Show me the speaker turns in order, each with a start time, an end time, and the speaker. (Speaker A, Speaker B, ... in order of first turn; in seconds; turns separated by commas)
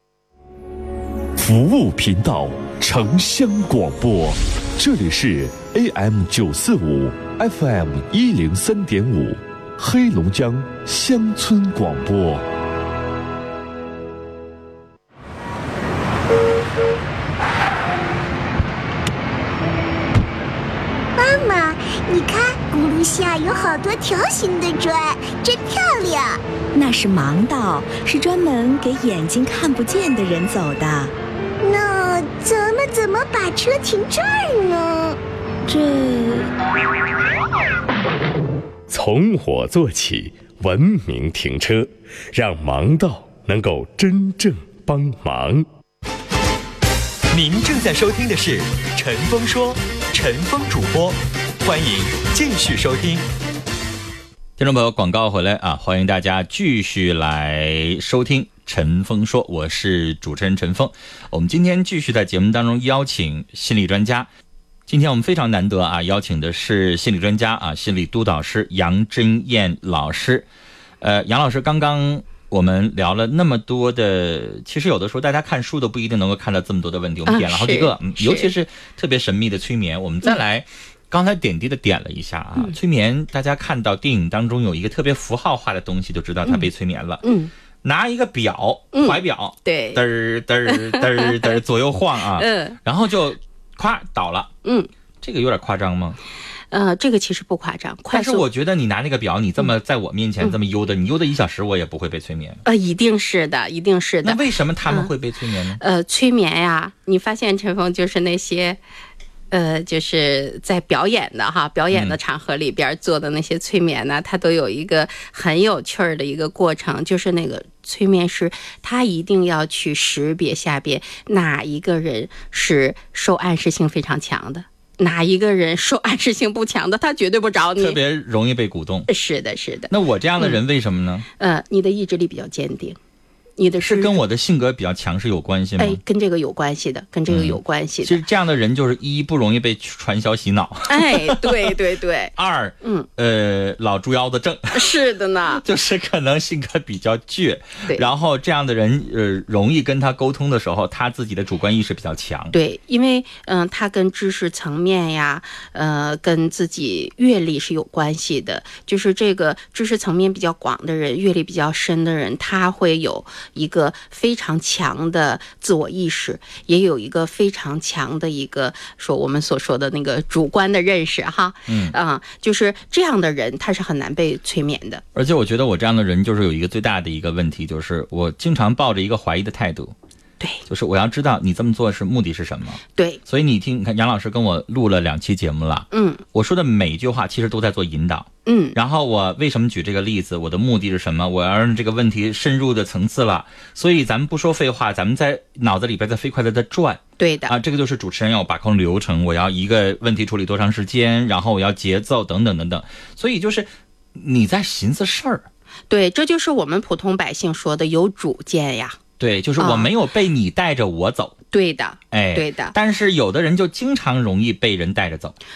Speaker A: 1.4-12.4, Speaker B: 21.2-26.4, Speaker C: 26.7-31.1, Speaker B: 31.6-35.2, Speaker C: 35.7-36.5, Speaker D: 38.9-45.7, Speaker E: 47.3-53.3, Speaker F: 54.6-64.3, Speaker F: 64.9-70.5, Speaker F: 71.0-87.2, Speaker G: 77.3-78.5, Speaker G: 87.2-87.5, Speaker F: 87.8-94.5, Speaker G: 88.9-90.0, Speaker G: 90.7-91.6, Speaker G: 92.4-92.8, Speaker G: 94.6-94.9, Speaker F: 95.2-96.2, Speaker G: 96.7-98.5, Speaker F: 98.1-102.6, Speaker G: 102.7-105.1, Speaker F: 104.2-105.8, Speaker G: 105.8-108.8, Speaker G: 109.5-128.0, Speaker F: 111.9-112.2, Speaker F: 127.8-129.1, Speaker G: 129.1-130.6, Speaker F: 129.9-131.3, Speaker G: 131.4-133.0, Speaker G: 133.6-134.2, Speaker F: 133.8-136.0, Speaker G: 135.8-138.2, Speaker F: 137.3-141.8, Speaker G: 140.9-143.1, Speaker F: 142.4-144.9, Speaker G: 144.7-145.6, Speaker F: 145.5-152.5, Speaker G: 152.5-175.0, Speaker F: 171.7-171.9, Speaker F: 175.2-179.9, Speaker F: 180.7-205.5, Speaker G: 182.9-183.2, Speaker G: 185.9-186.2, Speaker G: 188.5-188.8, Speaker G: 197.2-197.6, Speaker G: 205.9-209.0, Speaker F: 209.2-211.4, Speaker G: 209.6-209.9, Speaker G: 211.5-212.8, Speaker F: 212.1-215.4